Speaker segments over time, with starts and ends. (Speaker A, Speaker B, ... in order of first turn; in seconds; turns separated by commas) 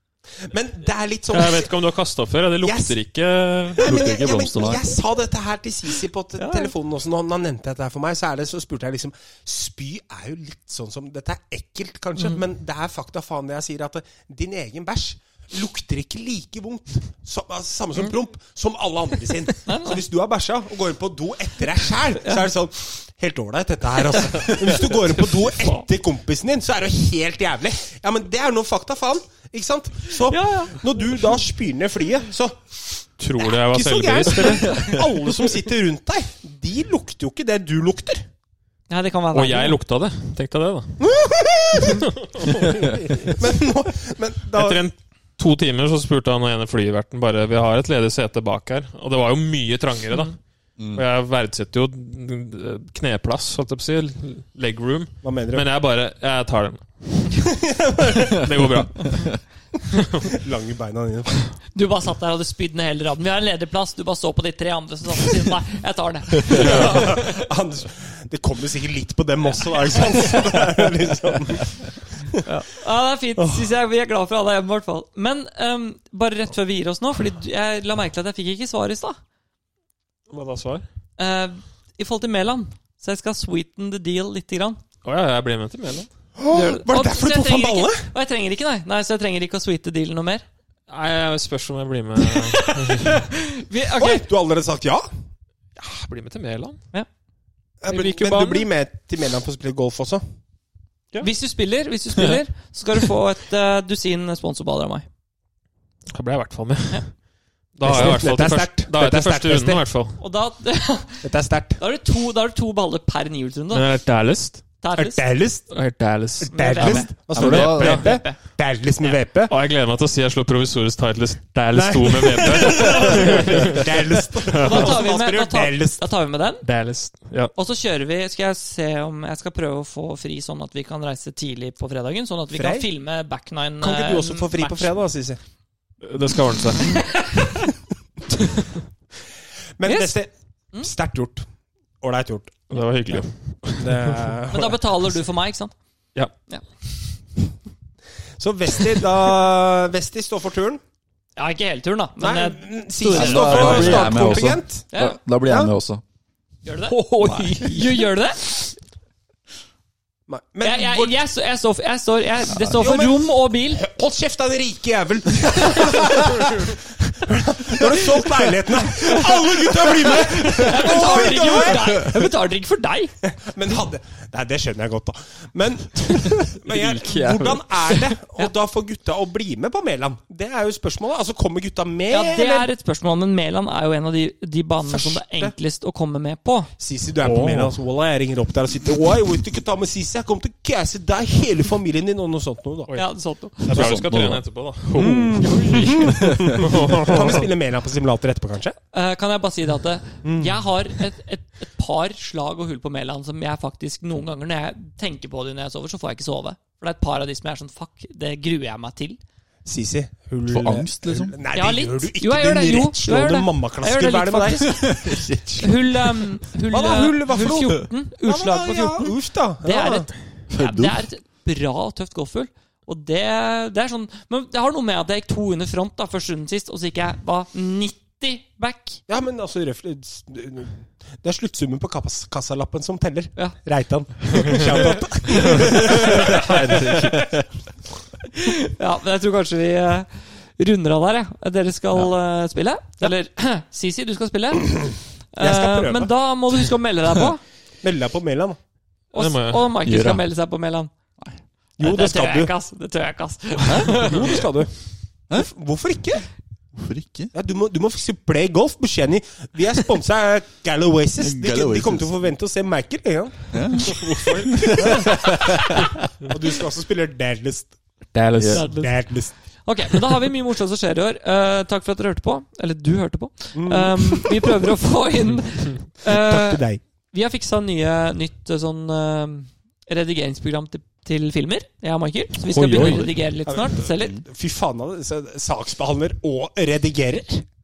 Speaker A: 0.5-1.7, Speaker B: 1.3-3.9, Speaker A: 2.6-3.0, Speaker A: 3.8-38.3, Speaker C: 3.8-4.9, Speaker D: 6.4-6.7, Speaker D: 19.7-20.0, Speaker D: 30.3-30.8, Speaker B: 33.2-35.1, Speaker D: 38.9-39.8, Speaker B: 39.3-41.0, Speaker A: 41.0-44.8, Speaker B: 41.9-43.0, Speaker B: 44.5-50.4, Speaker B: 50.9-60.3, Speaker A: 55.2-55.7, Speaker A: 57.4-58.6, Speaker A: 60.2-61.6, Speaker D: 61.7-67.3, Speaker A: 66.5-72.4, Speaker B: 66.5-67.2, Speaker D: 72.4-79.2, Speaker A: 73.4-73.7, Speaker B: 80.3-80.8, Speaker D: 81.2-84.8, Speaker B: 85.0-86.1, Speaker A: 86.4-88.1, Speaker D: 86.5-90.5, Speaker B: 90.9-93.2, Speaker D: 92.2-94.2, Speaker A: 94.0-95.1, Speaker B: 95.8-96.8, Speaker A: 97.8-100.2, Speaker B: 97.9-98.7, Speaker D: 101.2-105.1, Speaker B: 106.1-107.1, Speaker B: 107.8-110.2, Speaker A: 107.8-109.8, Speaker D: 110.2-111.2, Speaker A: 111.2-111.8, Speaker D: 111.8-113.9, Speaker B: 113.7-114.7, Speaker D: 114.8-115.2, Speaker A: 115.0-115.7, Speaker B: 115.7-118.1, Speaker A: 116.4-119.5, Speaker D: 116.5-118.4, Speaker C: 116.8-118.1, Speaker B: 119.5-123.9, Speaker A: 121.7-126.0, Speaker D: 122.7-123.7, Speaker B: 124.5-125.1, Speaker D: 124.6-126.7, Speaker B: 126.6-127.5, Speaker D: 127.5-134.9, Speaker A: 132.5-132.9, Speaker A: 133.8-135.4, Speaker B: 136.0-137.2, Speaker D: 136.8-137.4, Speaker A: 139.8-141.5, Speaker D: 139.9-140.2, Speaker A: 142.0-144.8, Speaker B: 142.7-144.3, Speaker D: 144.5-145.8, Speaker A: 148.4-150.8, Speaker D: 151.4-154.2, Speaker A: 152.2-154.9, Speaker C: 153.0-156.0, Speaker B: 153.4-154.2, Speaker D: 154.9-155.2, Speaker A: 155.4-155.7, Speaker D: 156.7-156.9, Speaker B: 156.9-157.9, Speaker A: 157.2-157.6, Speaker D: 157.6-158.6, Speaker A: 160.3-161.2, Speaker D: 160.6-163.8, Speaker A: 162.7-172.1, Speaker D: 170.6-173.1, Speaker A: 173.2-182.7, Speaker B: 176.1-178.2, Speaker D: 182.1-186.7, Speaker A: 184.8-185.6, Speaker A: 186.8-192.9, Speaker B: 187.2-187.7, Speaker D: 192.9-194.0, Speaker B: 193.6-197.5, Speaker C: 193.7-194.4, Speaker A: 194.9-198.8, Speaker D: 198.9-209.2, Speaker A: 200.2-200.6, Speaker A: 209.7-214.8, Speaker C: 210.5-211.4, Speaker D: 211.5-214.9, Speaker C: 214.8-215.8, Speaker D: 215.6-229.0, Speaker A: 216.7-220.1, Speaker C: 220.5-221.0, Speaker A: 229.1-237.2, Speaker B: 235.3-237.4, Speaker D: 238.3-247.4, Speaker A: 245.4-246.1, Speaker A: 247.8-248.6, Speaker D: 249.1-250.9, Speaker B: 249.2-249.7, Speaker C: 249.8-250.2, Speaker A: 251.8-252.5, Speaker D: 251.8-254.2, Speaker C: 253.7-254.2, Speaker A: 253.9-254.8, Speaker A: 255.3-256.3, Speaker C: 256.8-257.3, Speaker A: 257.3-264.0, Speaker C: 261.2-262.2, Speaker C: 263.5-265.9, Speaker B: 263.9-265.1, Speaker A: 264.6-265.6, Speaker A: 266.3-267.8, Speaker B: 268.1-268.7, Speaker C: 268.4-268.7, Speaker D: 268.5-284.2, Speaker A: 268.6-269.3, Speaker A: 273.6-274.5, Speaker A: 276.1-276.8, Speaker C: 282.5-283.2, Speaker B: 282.7-283.0, Speaker A: 283.5-287.5